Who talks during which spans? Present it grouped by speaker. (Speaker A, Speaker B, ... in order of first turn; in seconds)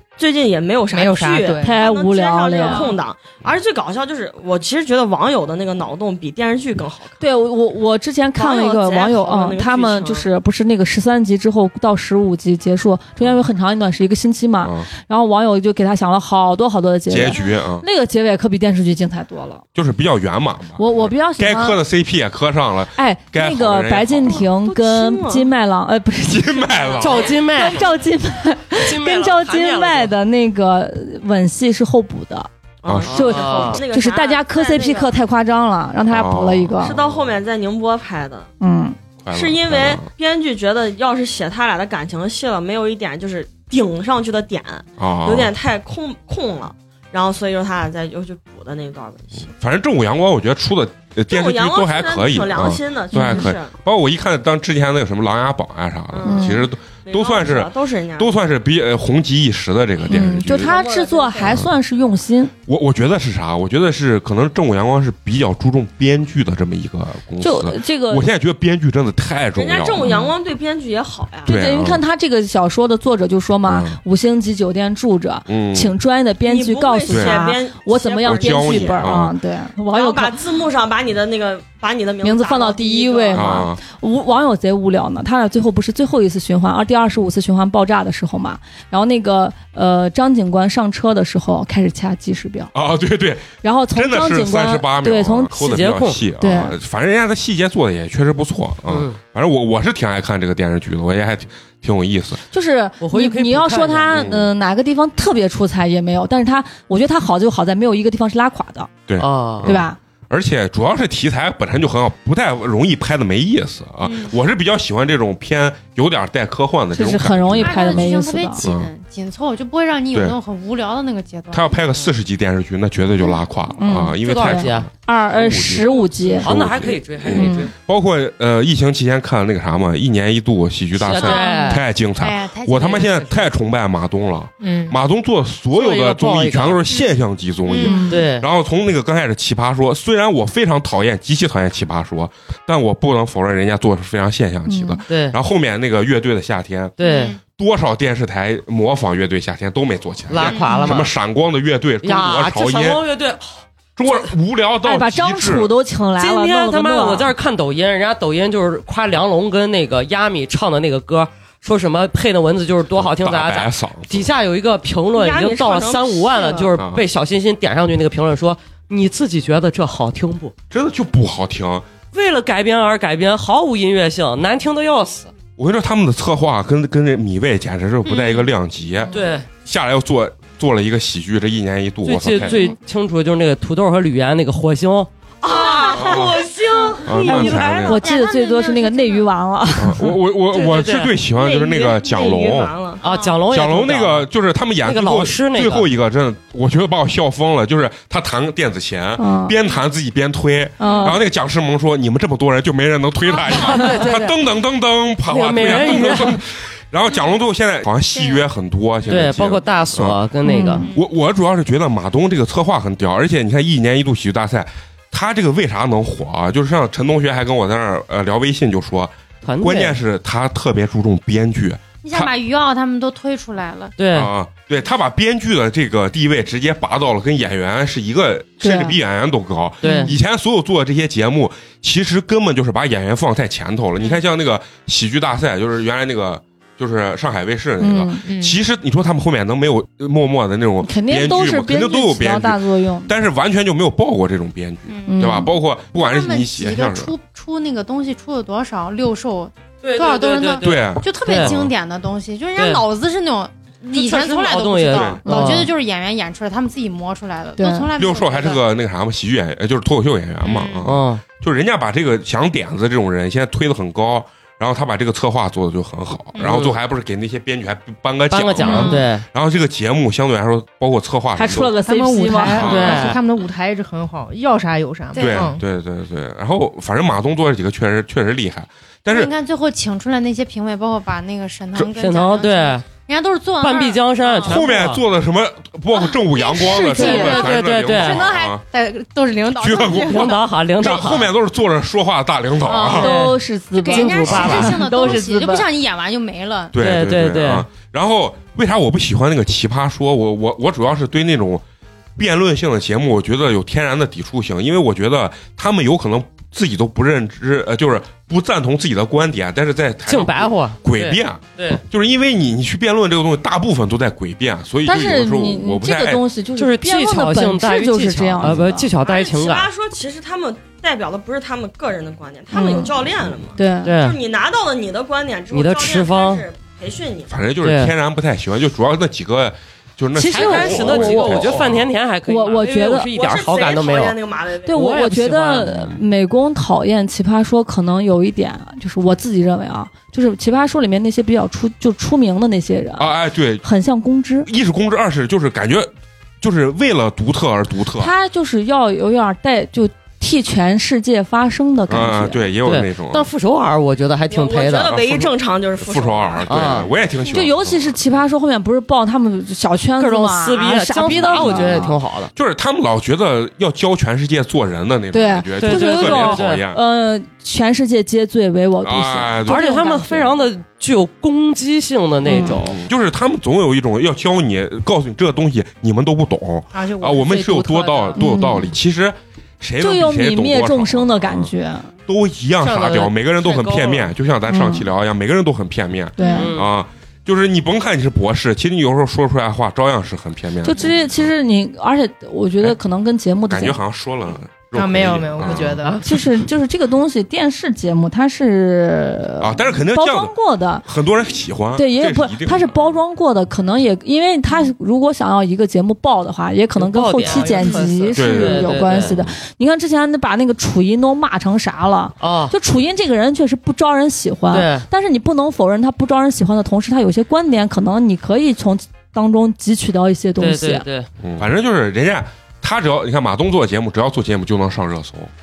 Speaker A: 0.2-7.2, 8.4-10.3, 24.4-25.5, 26.8-27.2, 32.8-35.2, 36.8-38.5, 39.3-49.5, 51.3-53.7, 56.1-58.3, 60.5-61.6, 69.5-71.5, 76.4-79.2, 79.9-83.6, 165.1-166.7, 185.4-186.3, 191.4-193.0, 319.0-327.3, 332.9-334.9, 354.3-356.8
Speaker B: 0.9-1.8, 271.8-275.6, 394.7-396.0, 407.5-407.9
Speaker C: 1.6-3.0, 7.2-19.6, 20.8-21.8, 22.9-32.5, 33.1-37.0, 38.6-39.0, 53.1-53.5, 56.2-56.7, 60.1-62.5, 67.4-68.3, 71.5-80.4, 82.2-92.7, 93.6-95.5, 96.4-96.7, 102.5-108.9, 109.6-110.0, 117.0-118.6, 123.8-126.5, 127.3-127.7, 137.8-138.2, 144.7-145.0, 154.8-157.3, 182.4-182.7, 187.2-190.2, 199.2-199.6, 200.8-201.2, 210.4-210.9, 228.6-228.9, 229.8-230.1, 237.8-238.2, 240.8-243.1, 245.1-245.5, 255.3-255.7, 257.6-257.9, 268.7-269.0, 271.3-273.1, 286.6-287.5, 293.0-295.7, 314.9-318.9, 322.5-322.9, 323.6-323.9, 330.1-331.5, 332.3-333.1, 334.7-344.5, 348.0-352.4, 357.2-361.9, 365.1-370.3, 372.2-372.6, 378.1-378.7, 379.8-381.9, 384.5-384.9, 386.2-386.5, 390.6-393.8, 396.0-400.9, 401.8-420.9
Speaker D: 14.6-14.9, 17.1-17.8, 19.7-24.4, 26.3-27.3, 32.9-33.1, 36.1-37.3, 39.2-40.1, 45.0-45.5, 49.5-60.7, 62.7-70.2, 71.5-72.0, 73.7-74.0, 75.5-76.0, 77.1-77.4, 78.2-79.3, 83.3-83.8, 92.7-102.4, 104.1-104.5, 109.1-118.1, 118.6-118.9, 121.5-146.9, 147.5-153.0, 153.9-155.7, 162.9-164.3, 166.8-167.0, 170.7-171.9, 175.6-182.6, 185.9-186.4, 187.0-188.0, 189.8-192.7, 193.5-210.2, 210.9-222.3, 224.1-247.1, 250.6-251.7, 254.9-255.2, 257.9-271.8, 272.5-273.1, 275.2-279.3, 284.4-288.6, 289.6-293.1, 294.3-294.7, 296.7-301.6, 302.2-316.2, 327.3-331.9, 343.0-343.6, 344.4-348.1, 351.9-353.3, 354.9-355.2, 355.8-358.1, 361.3-361.8, 362.3-366.8, 368.8-369.8, 372.2-381.5, 382.1-391.3, 393.5-395.8, 399.4-403.0, 408.1-409.3, 421.2-425.3
Speaker E: 27.0-27.8, 28.8-30.1, 33.1-33.8, 95.6-96.2, 98.9-99.2, 103.0-104.4, 109.2-109.7, 124.2-124.9, 126.4-127.7, 131.0-131.8, 135.7-136.8, 138.1-138.5, 145.1-145.4, 147.0-147.3, 150.3-151.1, 152.0-154.3, 156.2-170.5, 172.1-175.3, 179.1-179.4, 182.1-188.0, 190.5-191.1, 193.0-194.3, 194.8-195.9, 203.5-204.4, 205.3-206.4, 209.1-210.9, 219.4-220.0, 224.0-224.3, 229.8-230.1, 249.8-251.6, 252.6-252.9, 253.9-255.7, 260.8-261.2, 266.4-266.8, 268.3-269.2, 272.6-273.2, 281.9-282.8, 283.6-285.0, 287.0-288.3, 289.9-291.3, 292.9-293.3, 293.9-294.8, 296.8-297.7, 310.1-311.8, 316.6-319.7, 323.8-324.2, 325.5-326.4, 327.6-327.9, 330.3-334.2, 334.7-335.8, 352.6-355.3, 356.5-356.9, 360.0-362.3, 365.6-366.6, 369.5-372.8, 382.6-384.1, 386.2-386.7, 406.8-409.1, 412.2-412.5, 414.5-414.9, 420.4-421.1
Speaker F: 114.0-114.3, 117.5-121.9, 125.9-126.4, 131.2-133.4, 134.6-134.9, 137.6-138.2, 147.0-147.4, 150.4-150.9, 187.9-189.3, 193.0-193.4, 208.1-208.4, 222.0-223.9, 238.2-238.6, 244.9-258.6, 260.4-260.9, 268.6-269.0, 275.1-275.6, 279.1-284.6, 286.1-290.4, 292.6-296.7, 376.8-378.1, 386.2-386.5, 407.4-407.9